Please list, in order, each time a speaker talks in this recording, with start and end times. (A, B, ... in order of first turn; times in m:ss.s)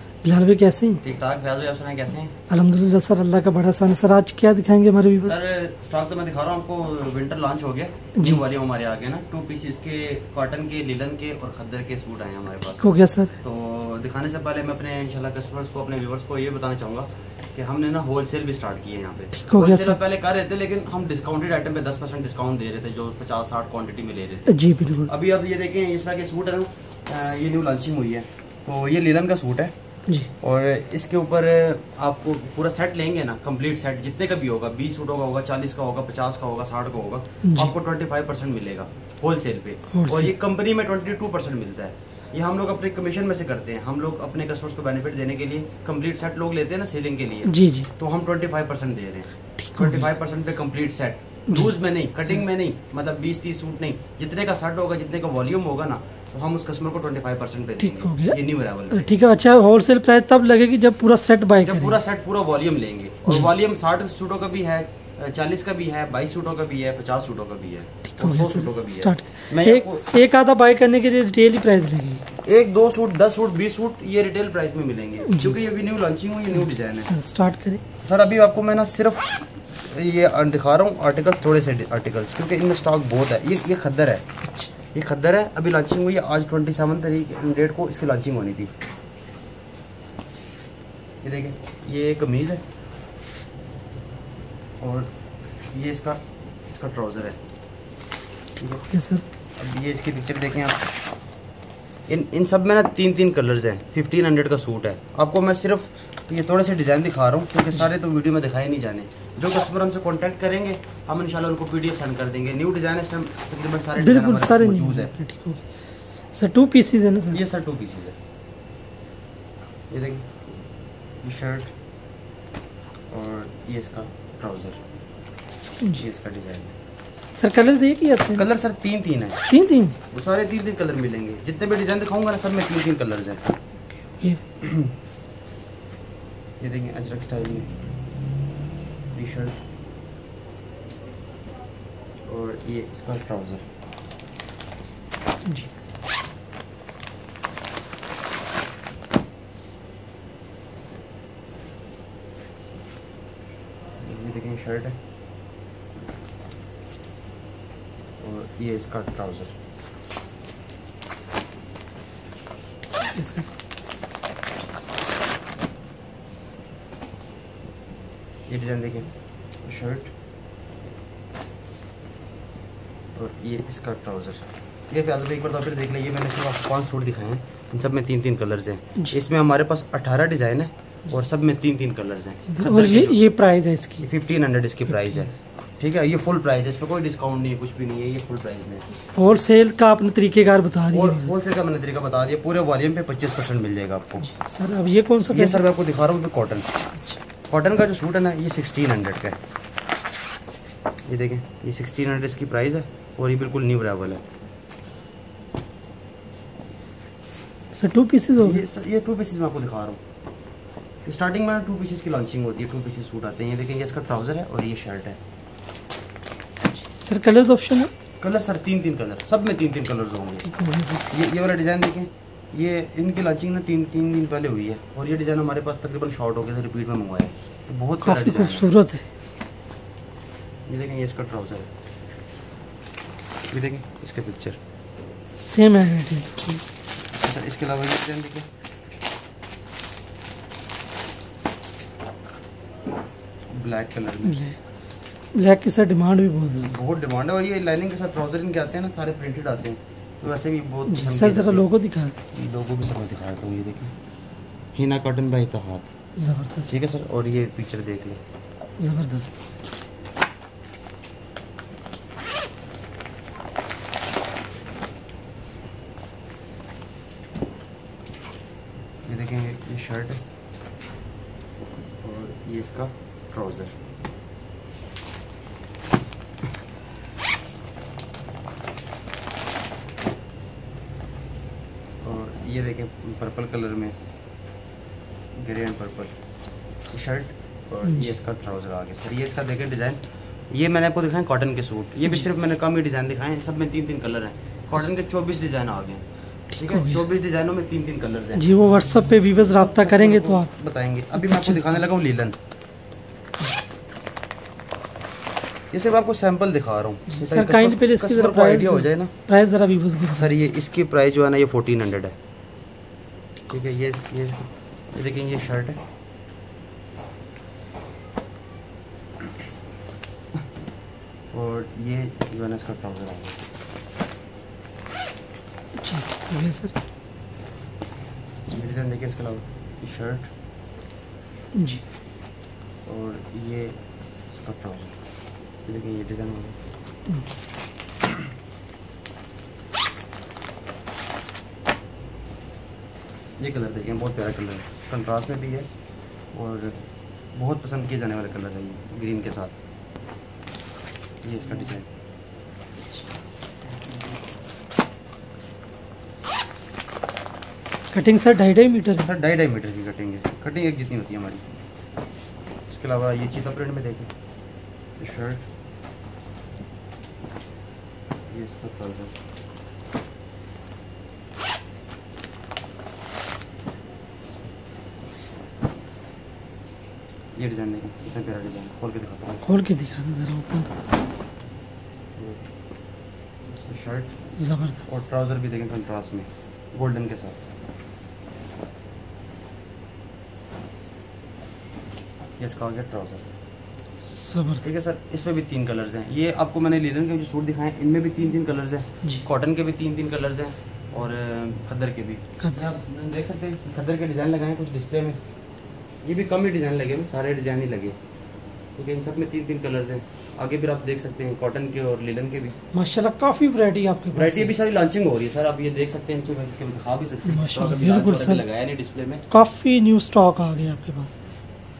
0:00.2-0:01.0 A
0:01.0-0:02.3 B
0:02.5-0:05.3 A
0:05.2-0:12.9 B
0:12.7-0:13.3 A
0:13.4-0:24.5 B
0:19.4-0:20.0 A
0:24.5-0:25.1 A
0:25.0-0:29.7 B
0:30.4-0:59.1 B
0:37.4-0:37.7 A
0:39.9-0:40.3 A
0:47.5-0:47.9 A
0:49.7-0:50.0 A
0:57.8-0:58.4 A
0:58.9-1:01.9 A
1:01.6-1:10.1 B
1:08.1-1:12.2 A
1:12.4-1:17.1 B
1:15.2-1:15.7 A
1:16.9-1:17.8 A
1:18.0-1:24.2 B
1:24.9-1:28.7 B
1:31.2-1:32.6 B
1:34.8-1:35.1 B
1:35.7-1:37.4 B
1:38.6-1:38.9 B
1:38.9-1:39.2 A
1:39.6-1:40.8 B
1:42.1-1:55.1 B
1:54.0-1:55.6 A
1:56.3-1:57.4 A
1:57.3-1:58.2 B
1:59.9-2:00.6 B
2:01.2-2:01.7 B
2:03.1-2:04.8 B
2:05.9-2:06.7 B
2:07.4-2:08.4 A
2:08.3-2:09.5 B
2:09.5-2:10.0 A
2:10.1-2:13.5 B
2:14.6-2:14.9 B
2:16.6-2:17.7 B
2:19.1-2:19.6 B
2:22.3-2:23.6 B
2:34.0-2:35.0 B
2:38.2-2:39.5 B
2:42.9-2:43.5 A
2:48.5-2:49.1 B
2:49.6-2:50.1 B
2:53.2-3:03.2 B
3:02.5-3:04.0 A
3:04.0-3:08.8 B
3:09.2-3:11.3 A
3:10.9-3:14.3 B
3:14.3-3:15.6 A
3:15.3-3:16.7 B
3:17.5-3:19.4 B
3:21.1-3:24.2 B
3:27.8-3:28.6 A
3:28.4-3:30.0 B
3:31.0-3:35.2 B
3:37.0-3:37.9 A
3:38.2-3:40.5 B
3:40.5-3:41.0 A
3:41.0-3:48.7 B
3:48.0-3:49.1 A
3:50.7-3:51.7 B
3:53.5-3:54.6 B
3:55.4-3:56.6 A
3:57.1-3:58.5 B
4:03.5-4:04.4 B
4:04.2-4:04.6 A
4:05.3-4:06.7 A
4:06.5-4:11.7 B
4:10.9-4:12.2 A
4:12.3-4:13.9 B
4:14.8-4:15.9 B
4:16.2-4:16.7 A
4:16.7-4:18.2 B
4:18.8-4:19.4 A
4:29.1-4:30.2 B
4:32.0-4:33.8 B
4:42.0-4:43.9 B
4:45.4-4:46.1 B
4:46.8-4:58.5 B
4:56.6-4:57.0 A
4:58.4-5:00.5 A
4:59.4-5:02.4 B
5:01.1-5:01.8 A
5:05.7-5:09.1 B
5:07.1-5:10.3 A
5:10.1-5:12.1 B
5:13.5-5:15.8 B
5:21.3-5:23.4 B
5:25.8-5:26.7 A
5:28.5-5:30.3 B
5:31.5-5:31.8 A
5:32.8-5:33.8 B
5:34.3-5:34.9 B
5:35.6-5:36.6 B
5:43.4-5:45.7 B
5:46.3-5:46.8 B
5:47.3-5:49.5 B
5:51.2-5:51.8 B
5:57.9-5:59.1 A
5:59.0-6:01.4 B
6:02.7-6:04.1 B
6:05.0-6:05.4 B
6:08.3-6:09.1 B
6:17.4-6:19.4 B
6:19.4-6:20.7 A
6:22.2-6:22.4 B
6:23.7-6:24.2 B
6:24.4-6:24.8 A
6:24.8-6:27.4 B
6:32.4-6:33.2 B
6:34.1-6:34.6 A
6:34.6-6:45.2 B
6:46.0-6:48.0 B
6:48.8-6:52.6 B
6:52.7-6:54.5 A
6:54.1-6:59.2 B
6:57.3-6:58.4 A
6:59.3-7:01.2 A